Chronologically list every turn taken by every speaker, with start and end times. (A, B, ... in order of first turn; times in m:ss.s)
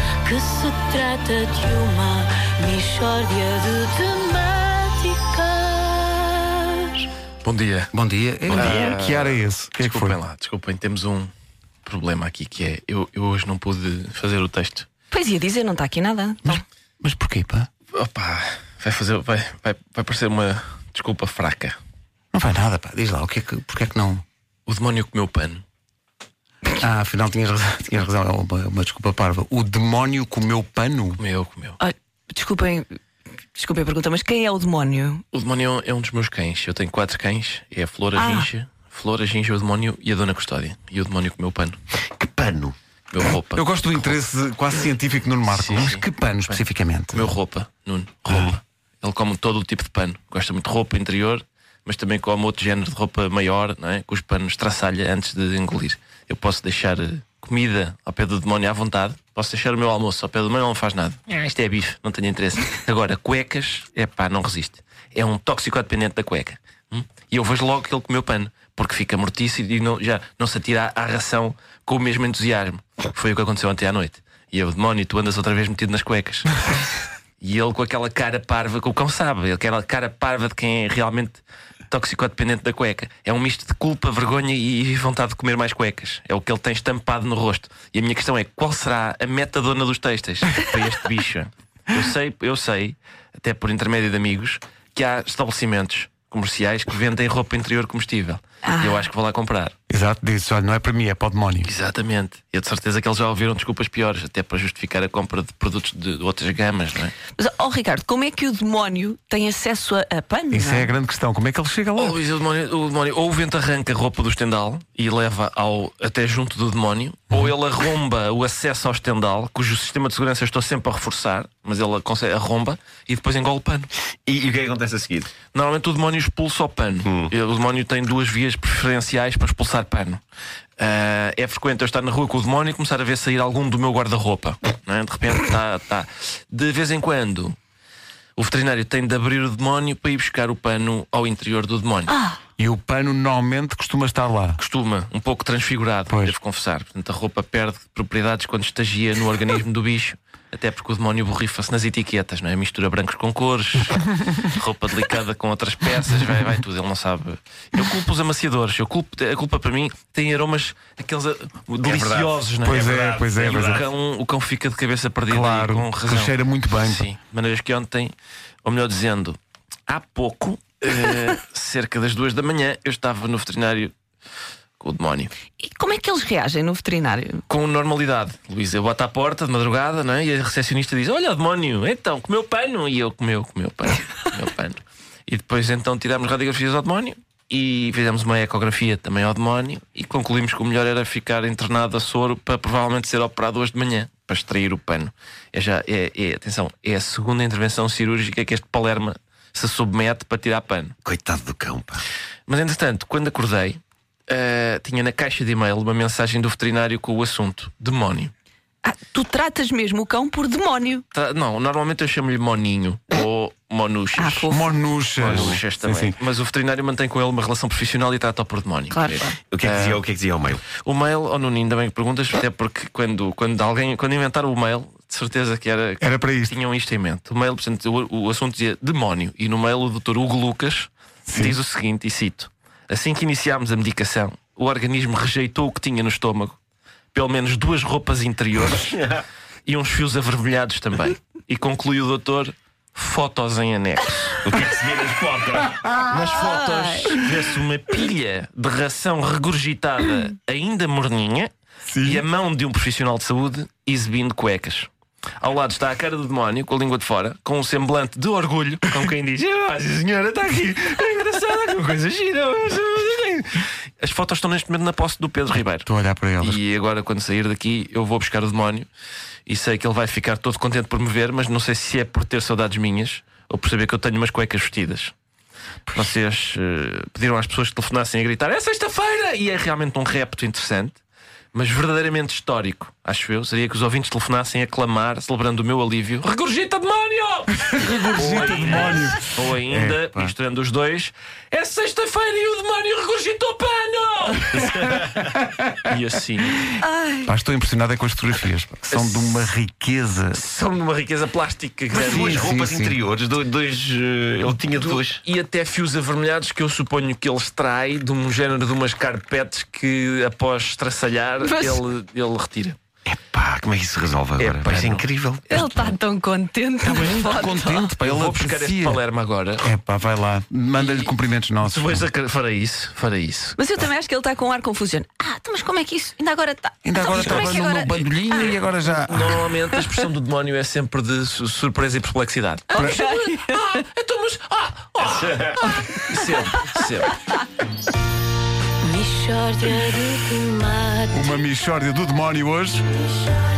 0:00.2-0:07.1 A
0:07.4-0:07.9 B
0:07.9-0:10.2 C
0:08.5-0:11.3 B
0:11.8-0:14.9 B
0:15.1-0:16.6 D
0:16.4-0:17.7 C
0:17.9-0:21.8 B
0:22.3-0:24.2 C
0:24.7-0:25.6 B
0:26.8-0:31.2 C
0:31.2-0:31.8 B
0:31.8-0:32.9 D
0:33.6-0:35.2 D
0:35.3-0:41.8 B
0:38.2-0:38.5 D
0:42.2-0:42.7 C
0:43.1-0:44.1 B
0:43.5-0:47.3 C
0:45.5-0:46.6 B
0:47.1-1:39.7 B
1:38.7-1:39.0 D
1:39.9-1:41.7 C
1:41.6-1:47.2 B
1:47.4-1:50.9 D
1:50.5-1:52.2 C
1:52.0-2:03.9 B
2:04.2-2:05.3 E
2:05.5-2:10.2 B
2:07.0-2:07.3 E
2:10.8-2:17.6 B
2:18.4-2:22.1 B
2:22.1-2:22.4 D
2:22.6-2:24.6 C
2:24.6-2:53.9 B
2:26.1-2:26.4 C
2:41.8-2:43.9 E
2:42.6-2:43.8 C
2:45.3-2:47.0 C
2:54.8-2:55.3 B
2:55.6-2:57.4 D
2:57.5-3:21.0 B
3:21.0-3:22.0 E
3:22.5-3:28.3 B
3:28.8-3:31.0 D
3:31.1-3:34.5 B
3:34.2-3:34.6 D
3:34.5-3:36.2 C
3:35.2-3:40.0 B
3:35.3-3:35.6 E
3:38.9-3:39.4 D
3:39.5-3:40.6 E
3:40.7-3:56.6 B
3:46.0-3:46.5 C
3:51.3-3:51.6 C
3:57.1-3:59.1 B
3:59.7-4:04.6 B
4:04.4-4:05.6 E
4:05.7-4:14.9 B
4:06.3-4:07.2 D
4:11.9-4:12.2 C
4:15.4-4:25.9 B
4:25.8-4:26.6 C
4:26.4-4:28.9 B
4:29.5-4:35.1 B
4:35.9-4:41.0 B
4:41.5-4:56.7 B
4:47.7-4:50.3 C
4:56.7-4:57.3 D
4:57.2-5:00.4 C
4:58.9-4:59.5 B
5:00.3-5:02.6 B
5:01.9-5:03.0 C
5:01.9-5:05.2 E
5:04.4-5:12.8 B
5:11.4-5:11.8 D
5:13.1-5:15.6 E
5:14.4-5:15.9 B
5:15.5-5:17.8 D
5:16.8-5:19.0 C
5:17.6-5:19.7 B
5:19.6-5:22.0 C
5:20.8-5:23.6 B
5:23.6-5:28.5 D
5:26.8-5:29.5 C
5:27.1-5:27.6 B
5:29.0-5:37.2 B
5:32.7-5:33.4 D
5:38.8-5:41.3 A
5:41.1-5:42.8 C